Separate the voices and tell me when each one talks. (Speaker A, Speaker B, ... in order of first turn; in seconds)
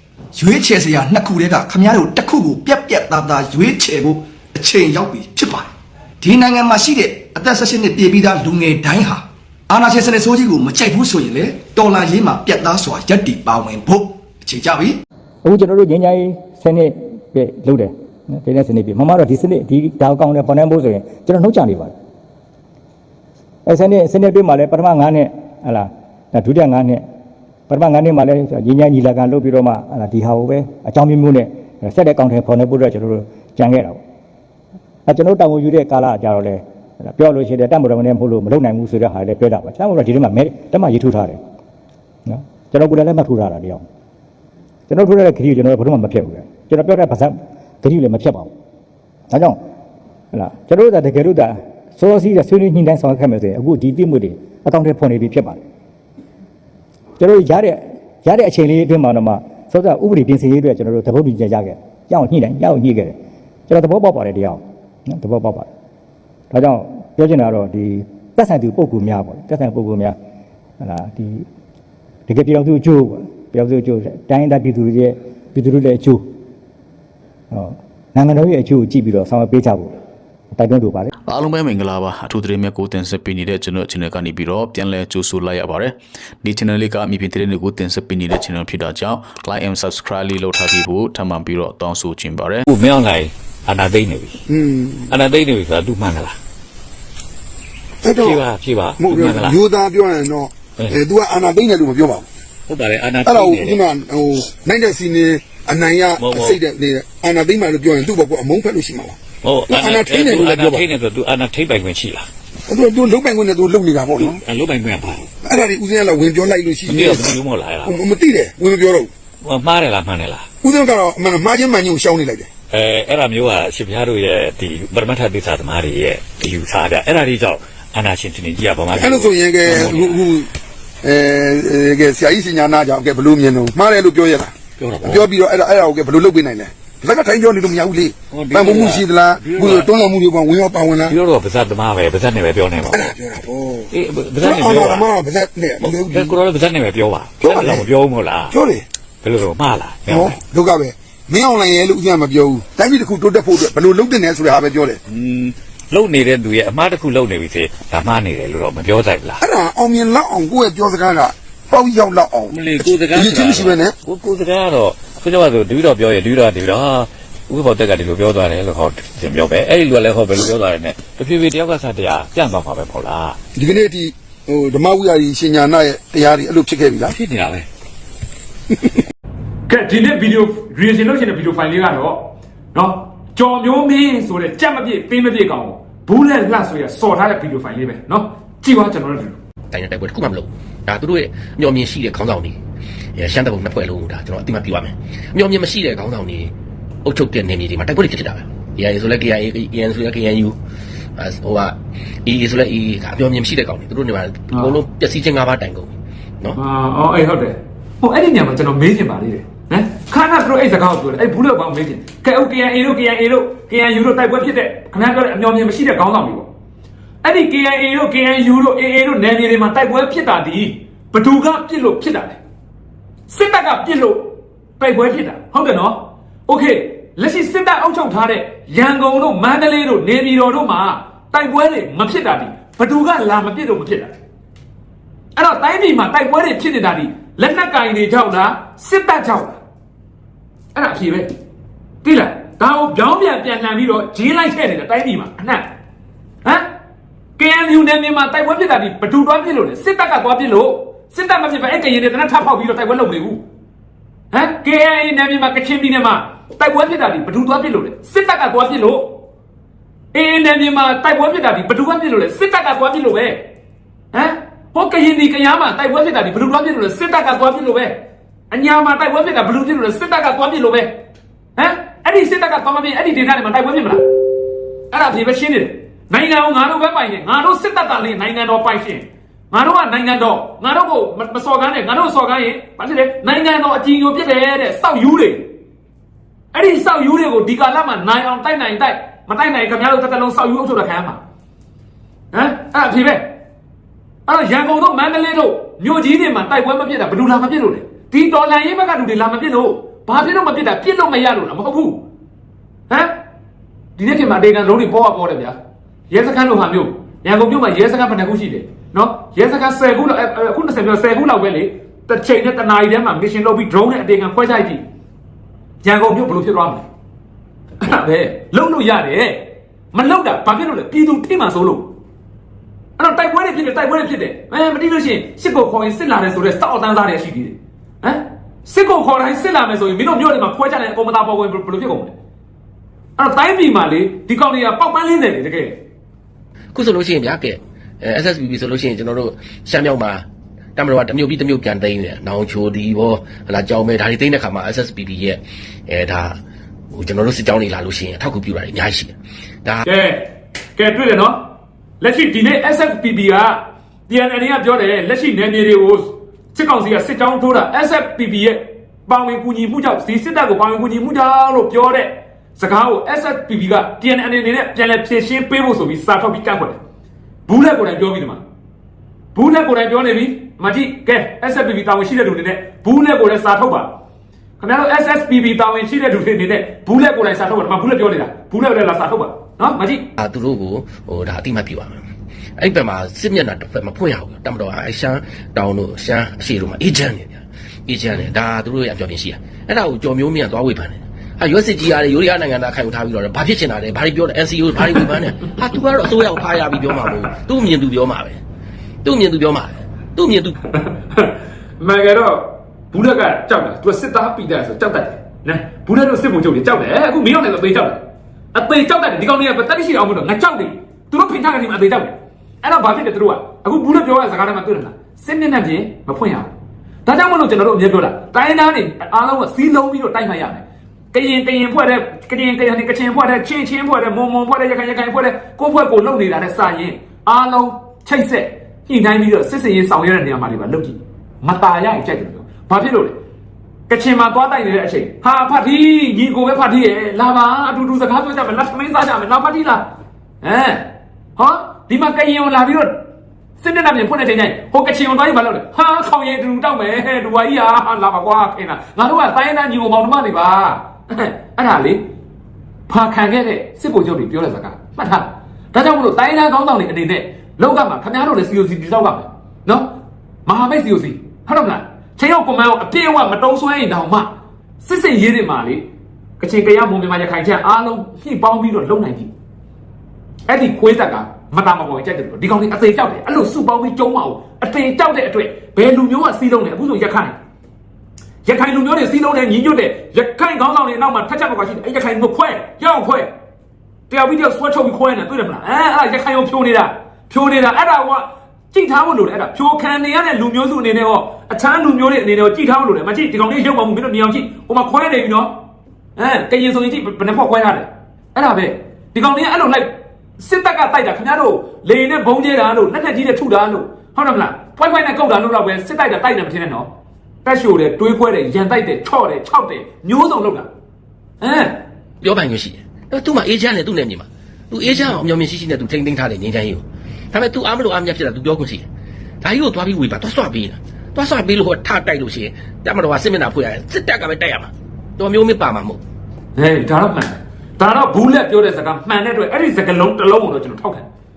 Speaker A: 0.3-5.7, 6.2-15.0
Speaker B: 15.4-17.9, 18.4-21.9, 23.7-27.0, 27.7-34.0, 35.1-36.6, 37.1-41.4, 42.3-43.8, 44.9-48.5, 50.3-55.6, 57.2-63.1, 63.7-64.6, 65.2-65.6, 66.5-70.1, 70.8-71.3, 72.3-76.2, 77.5-79.9, 80.5-81.0
Speaker C: 81.2-92.7
Speaker D: 92.7-94.4, 95.1-96.3, 98.0-99.6, 102.7-103.8, 106.2-106.6, 109.4-112.2, 114.2-115.3, 116.8-118.0, 119.4-120.5, 122.7-130.3, 134.8-135.3, 138.3-139.9, 141.0-143.1, 143.9-145.1, 145.8-148.5, 149.2-150.4, 155.1-159.4, 162.5-173.4, 177.1-177.7
Speaker E: 94.5-95.1, 98.0-98.4, 99.0-102.2, 103.2-109.2, 109.7-110.9, 112.7-114.4, 115.4-119.1, 120.6-122.5, 128.9-130.5, 131.0-141.1, 142.9-143.9, 144.4-146.4, 147.4-147.8, 148.5-148.8, 150.1-155.0, 159.4-163.9, 173.6-177.1
Speaker F: 179.7-189.4, 204.5-204.8, 206.6-216.5, 217.2-222.4, 223.3-234.2, 235.3-239.6, 240.7-241.3, 242.0-245.7, 247.4-253.4, 254.3-259.1, 260.1-263.4, 264.1-268.0, 268.5-271.0, 271.6-274.1, 274.9-285.5, 286.5-291.2, 292.3-293.3, 294.3-302.0, 304.0-305.6, 306.1-314.8, 315.8-316.8, 317.8-321.9, 323.0-332.1, 333.2-335.8, 349.9-351.4, 352.0-366.8, 367.5-368.4, 369.3-373.9, 374.6-380.1, 400.7-408.0, 408.5-416.5, 417.0-433.2, 433.9-439.9, 440.4-442.9, 443.6-452.0, 452.9-459.9, 460.4-465.9, 466.4-469.3, 470.4-477.4, 478.4-483.3, 484.1-495.5, 496.2-506.9, 507.4-510.7, 511.4-511.8, 526.5-531.1
Speaker G: 189.7-192.6, 193.2-196.5, 197.0-200.6, 201.2-206.6, 336.7-340.2, 340.8-346.4, 346.9-349.9, 380.2-382.0, 382.6-398.4, 399.0-400.6, 512.2-518.8, 519.4-526.0